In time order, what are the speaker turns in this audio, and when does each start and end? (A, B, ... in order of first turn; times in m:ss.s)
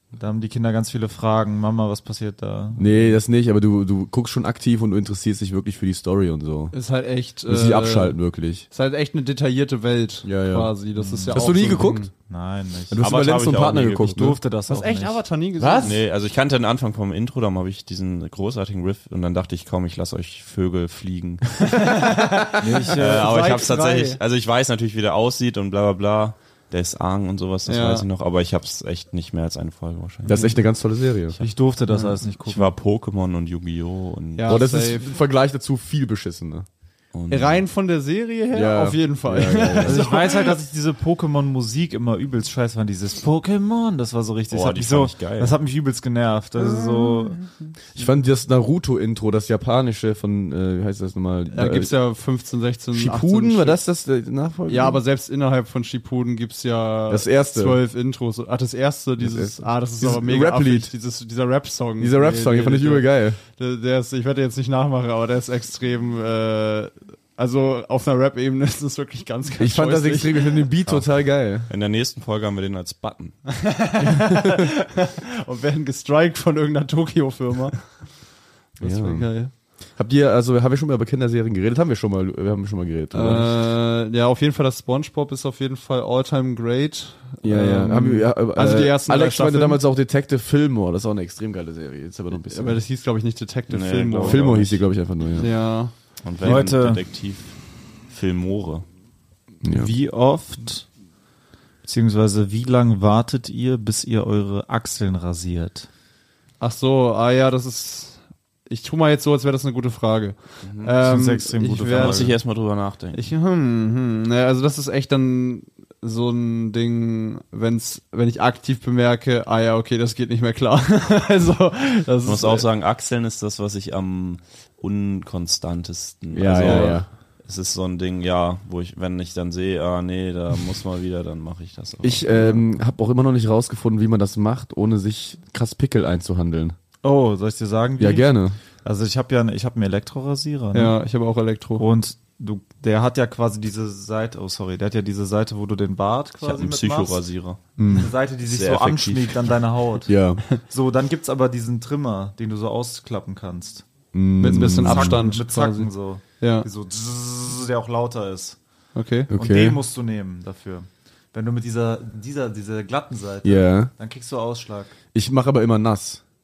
0:00.2-0:03.2 A
0:02.8-0:06.7 B
0:06.7-0:12.1 C
0:07.5-0:08.6 B
0:10.2-0:10.7 B
0:11.0-0:13.0 A
0:11.3-0:12.1 B
0:12.9-0:14.4 B
0:13.0-0:14.3 D
0:14.1-0:15.2 A
0:14.7-0:16.0 C
0:15.6-0:16.0 B
0:15.8-0:22.0 D
0:21.7-0:24.2 C
0:22.6-0:23.4 A
0:23.0-0:30.4 D
0:27.6-0:28.0 C
0:30.2-0:31.4 B
0:31.4-0:32.7 A
0:32.4-0:34.6 D
0:34.4-0:35.1 C
0:34.4-0:36.6 B
0:37.1-0:37.6 D
0:37.3-0:40.5 C
0:38.5-0:40.1 B
0:39.8-0:47.4 A
0:44.5-0:45.6 D
0:46.8-0:47.4 C
0:47.9-0:51.9 B
0:51.5-0:53.8 C
0:52.9-0:55.0 B
0:54.7-1:10.6 C
0:57.1-0:57.8 B
0:59.2-1:00.9 B
1:02.0-1:03.4 B
1:09.6-1:11.7 B
1:11.6-1:13.4 D
1:13.5-1:18.2 C
1:18.8-1:19.5 C
1:18.8-1:19.3 B
1:19.9-1:23.5 B
1:23.1-1:29.8 C
1:27.4-1:32.8 B
1:32.5-1:34.8 C
1:33.7-1:34.8 D
1:34.2-1:35.5 B
1:35.3-1:35.9 C
1:36.2-1:38.8 D
1:36.4-1:37.0 A
1:39.6-1:39.9 B
1:39.7-1:40.9 A
1:41.8-1:45.9 A
1:46.6-1:52.4 C
1:51.0-1:52.3 A
1:52.0-1:53.2 D
1:53.1-2:02.6 C
2:02.2-2:12.6 D
2:06.3-2:07.1 B
2:06.6-2:07.0 C
2:12.0-2:16.8 B
2:17.0-2:18.3 A
2:18.0-2:18.6 B
2:18.8-2:20.9 A
2:20.7-2:21.8 C
2:21.8-2:27.2 A
2:26.4-2:27.8 D
2:27.8-2:28.1 B
2:27.9-2:33.8 A
2:28.4-2:29.6 D
2:30.1-2:30.4 B
2:34.1-2:35.2 B
2:34.4-2:36.7 C
2:34.5-2:38.6 A
2:38.9-2:39.3 C
2:39.3-2:39.8 B
2:39.3-2:44.9 A
2:43.4-2:43.9 B
2:45.1-2:46.2 B